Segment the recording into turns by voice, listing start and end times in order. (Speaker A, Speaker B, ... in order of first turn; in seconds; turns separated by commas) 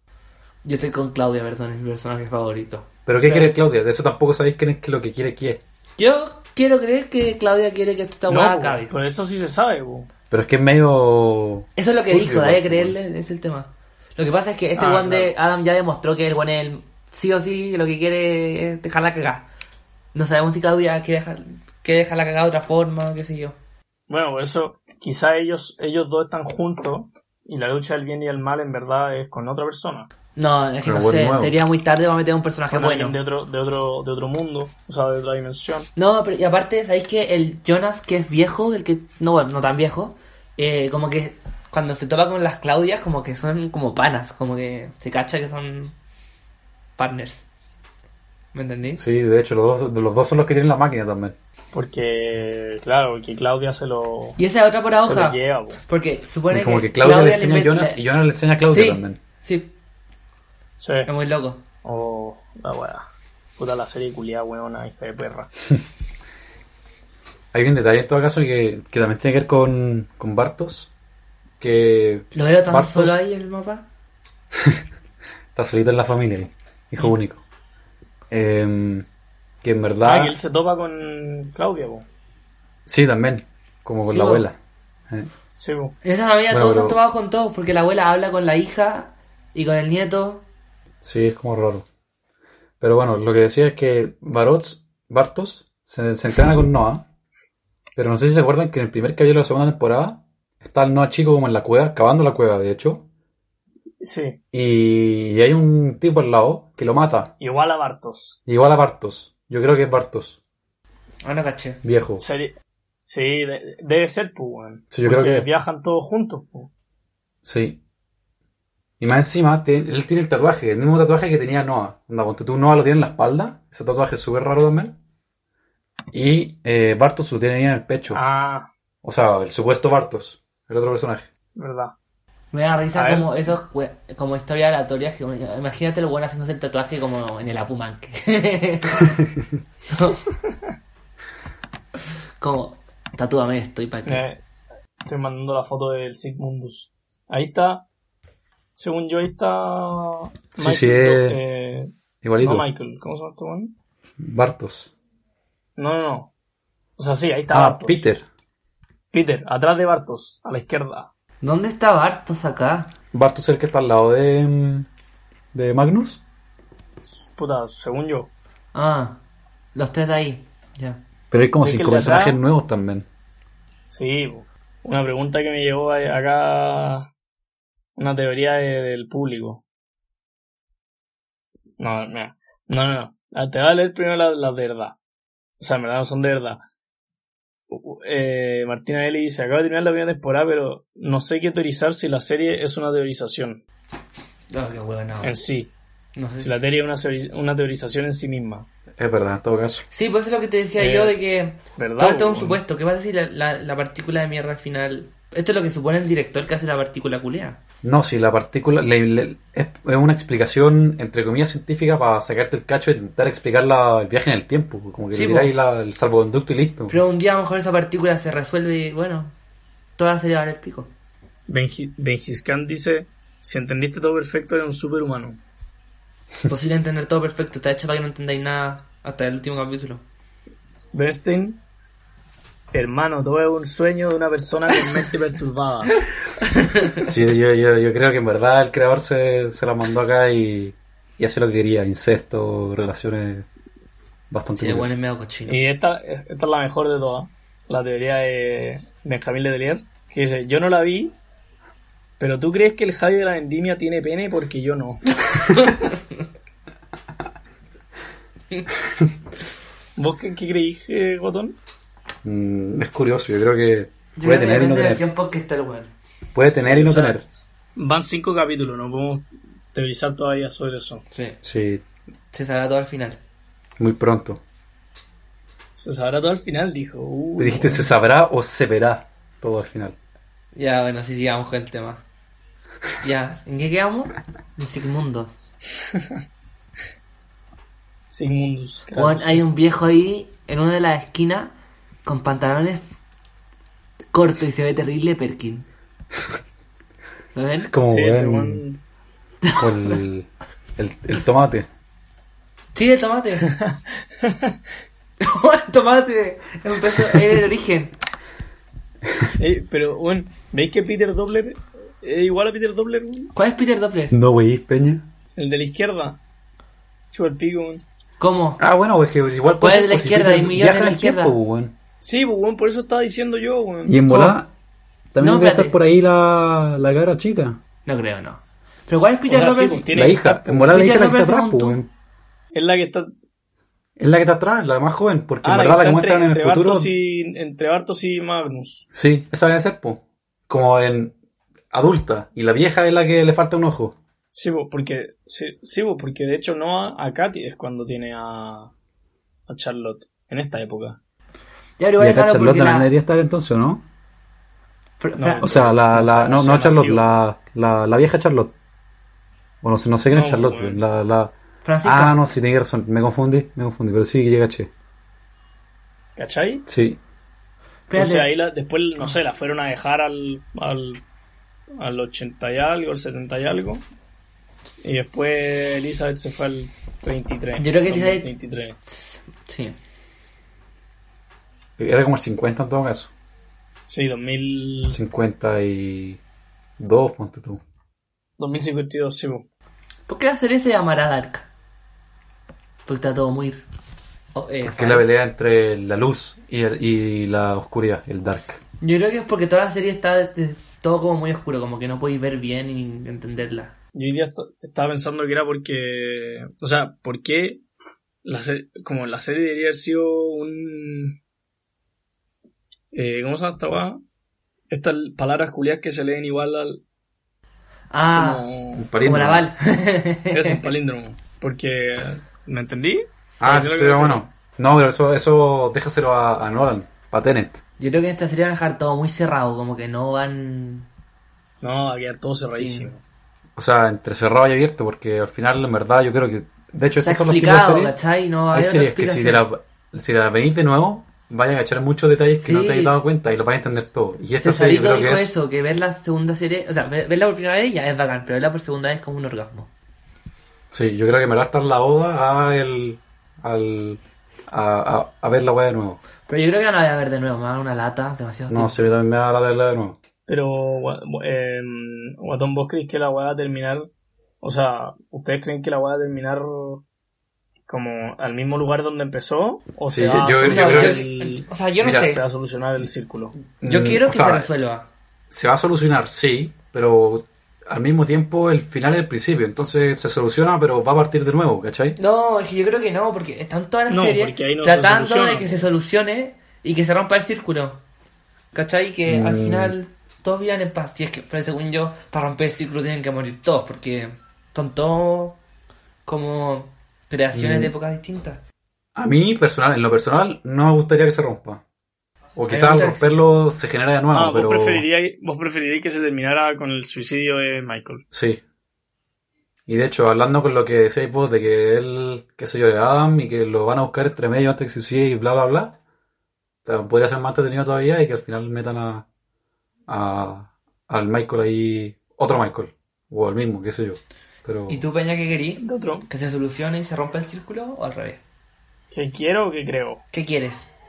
Speaker A: 0.6-3.5, Speaker B: 3.0-5.6, Speaker A: 6.0-8.9, Speaker C: 8.3-10.1, Speaker B: 10.3-12.9, Speaker A: 11.8-19.5, Speaker C: 14.8-15.3, Speaker A: 20.1-23.6, Speaker C: 24.1-30.1, Speaker A: 30.3-33.2, Speaker B: 30.8-31.5, Speaker C: 32.7-35.9, Speaker A: 35.9-45.9, Speaker A: 47.0-47.5, Speaker A: 48.5-49.0, Speaker B: 48.9-51.3, Speaker C: 51.7-54.4, Speaker A: 54.4-58.0, Speaker C: 55.0-55.8, Speaker B: 56.5-59.2, Speaker A: 58.7-59.7, Speaker C: 60.8-61.1, Speaker A: 61.0-61.6, Speaker C: 61.8-63.0, Speaker C: 63.6-65.5, Speaker B: 67.5-70.9, Speaker B: 71.6-73.2, Speaker A: 72.3-73.8, Speaker B: 74.5-74.8, Speaker B: 75.5-77.4, Speaker B: 78.3-79.1, Speaker B: 79.6-80.3, Speaker C: 80.0-82.0, Speaker B: 82.8-84.5, Speaker A: 84.1-84.5, Speaker C: 85.6-86.0, Speaker A: 86.0-90.4, Speaker B: 86.5-87.0, Speaker B: 91.0-91.8, Speaker B: 92.8-97.0, Speaker B: 98.0-103.0, Speaker C: 104.0-104.4, Speaker B: 104.5-107.3, Speaker C: 107.4-108.4, Speaker B: 108.5-110.4, Speaker A: 111.2-111.8, Speaker B: 111.8-112.2, Speaker C: 112.2-112.5, Speaker C: 113.1-116.7, Speaker B: 114.9-115.5, Speaker B: 117.4-117.8, Speaker B: 119.0-124.9, Speaker B: 126.1-128.2, Speaker C: 128.1-128.7, Speaker B: 129.0-131.3, Speaker C: 131.6-131.9, Speaker A: 132.5-139.1, Speaker C: 132.9-133.5, Speaker A: 139.9-140.2, Speaker A: 142.4-144.2, Speaker C: 144.1-144.4, Speaker C: 145.1-147.8, Speaker C: 148.8-151.9, Speaker B: 150.6-151.4, Speaker B: 152.2-152.7, Speaker C: 152.4-153.7, Speaker B: 154.2-154.9, Speaker C: 155.8-156.3, Speaker C: 157.0-158.0, Speaker B: 157.5-158.2, Speaker C: 159.1-161.1, Speaker A: 161.4-162.9, Speaker B: 163.1-164.9, Speaker B: 165.5-166.2, Speaker C: 167.0-168.3, Speaker A: 168.7-169.2, Speaker A: 169.7-171.0, Speaker B: 171.3-173.1, Speaker C: 171.6-172.4, Speaker C: 173.9-177.1, Speaker C: 178.0-179.6, Speaker C: 181.8-185.0, Speaker C: 185.6-186.6, Speaker C: 187.7-193.6, Speaker A: 194.5-195.3, Speaker C: 195.2-195.7, Speaker A: 196.2-196.6, Speaker C: 196.4-198.7, Speaker B: 199.0-199.8, Speaker A: 199.9-207.6, Speaker C: 200.8-201.2, Speaker C: 201.8-202.6, Speaker B: 207.8-216.9, Speaker A: 215.1-215.5, Speaker A: 216.9-219.3, Speaker A: 220.0-220.9, Speaker C: 221.5-225.4, Speaker A: 226.5-230.0, Speaker C: 230.9-231.6, Speaker C: 232.7-236.0, Speaker A: 236.4-237.0, Speaker B: 237.0-243.4, Speaker B: 244.3-244.9, Speaker A: 244.5-245.6, Speaker C: 245.5-251.2, Speaker C: 252.2-255.3, Speaker A: 255.6-256.0, Speaker C: 259.9-261.6, Speaker B: 262.2-265.0, Speaker A: 264.1-265.9, Speaker B: 266.3-267.2, Speaker C: 266.5-267.2, Speaker C: 267.8-271.0, Speaker A: 271.1-271.4, Speaker B: 271.4-271.8, Speaker A: 272.3-273.2, Speaker B: 273.8-274.4, Speaker C: 275.8-277.9, Speaker B: 277.4-279.9, Speaker A: 280.5-282.0, Speaker A: 283.0-285.3, Speaker C: 288.1-289.5, Speaker A: 288.9-292.9, Speaker A: 294.1-295.7, Speaker A: 297.3-297.7, Speaker B: 297.6-298.6, Speaker C: 297.9-298.8, Speaker A: 299.4-300.0, Speaker B: 299.6-301.7, Speaker A: 302.7-303.5, Speaker C: 303.4-304.5, Speaker A: 305.2-307.9, Speaker C: 309.4-313.3, Speaker A: 313.3-314.1, Speaker B: 314.1-315.1, Speaker C: 315.4-316.2, Speaker C: 317.1-317.8, Speaker A: 318.2-318.6, Speaker B: 318.6-321.7, Speaker A: 319.6-321.3, Speaker C: 322.0-324.0, Speaker B: 323.9-324.5, Speaker A: 324.0-324.4, Speaker B: 325.1-327.6, Speaker A: 325.2-325.8, Speaker A: 327.9-329.9, Speaker C: 329.3-330.7, Speaker B: 329.9-331.9, Speaker A: 330.7-331.8, Speaker C: 332.5-333.1, Speaker B: 334.0-336.9, Speaker C: 335.4-338.9, Speaker B: 338.9-341.1, Speaker B: 341.7-344.0, Speaker C: 344.3-348.7, Speaker C: 349.5-351.0, Speaker A: 351.8-352.9, Speaker B: 352.0-353.8, Speaker A: 355.0-355.5, Speaker C: 355.2-357.2, Speaker B: 355.4-358.5, Speaker B: 359.6-364.7, Speaker C: 360.1-360.8, Speaker A: 361.6-362.2, Speaker C: 366.1-366.6, Speaker B: 366.7-367.0, Speaker A: 367.9-368.3, Speaker C: 367.9-371.0, Speaker C: 371.8-373.8, Speaker C: 374.8-378.8, Speaker A: 377.6-378.3, Speaker A: 378.9-379.8, Speaker B: 381.8-383.1, Speaker C: 383.9-385.0, Speaker B: 384.9-386.2, Speaker B: 386.8-387.6, Speaker C: 388.4-389.4, Speaker A: 390.1-391.5, Speaker A: 392.9-393.6, Speaker A: 394.3-395.1, Speaker B: 394.6-398.6, Speaker A: 398.8-403.7, Speaker C: 403.9-407.6, Speaker C: 408.2-411.2, Speaker C: 412.9-414.0, Speaker C: 414.7-416.8, Speaker A: 417.9-418.5, Speaker C: 418.1-418.9, Speaker B: 418.8-419.5, Speaker A: 419.0-420.6, Speaker C: 420.3-424.2, Speaker B: 423.4-427.6, Speaker A: 427.8-430.9, Speaker C: 431.6-433.0, Speaker A: 432.5-432.9, Speaker B: 433.6-437.9, Speaker A: 437.0-439.4, Speaker B: 438.5-445.3, Speaker A: 442.4-443.0, Speaker A: 444.4-449.7, Speaker B: 450.7-456.0, Speaker A: 456.3-458.9, Speaker B: 458.5-460.0, Speaker C: 460.3-463.9, Speaker C: 464.4-466.8, Speaker C: 467.7-473.3, Speaker B: 469.9-471.1, Speaker A: 470.4-472.2, Speaker B: 471.8-472.1, Speaker B: 473.6-474.7, Speaker A: 473.6-474.9, Speaker B: 475.3-482.0, Speaker A: 482.0-487.8, Speaker C: 483.9-485.6, Speaker A: 488.5-495.4, Speaker B: 489.1-489.8, Speaker A: 496.1-498.4, Speaker B: 497.3-497.7, Speaker B: 498.9-501.6, Speaker B: 502.4-504.9, Speaker A: 502.5-503.2, Speaker C: 504.1-508.0, Speaker B: 508.1-508.4, Speaker B: 509.7-515.8, Speaker B: 516.6-519.0, Speaker B: 519.9-524.8, Speaker A: 524.7-528.2, Speaker C: 525.6-526.0, Speaker C: 528.9-530.0, Speaker A: 530.1-530.7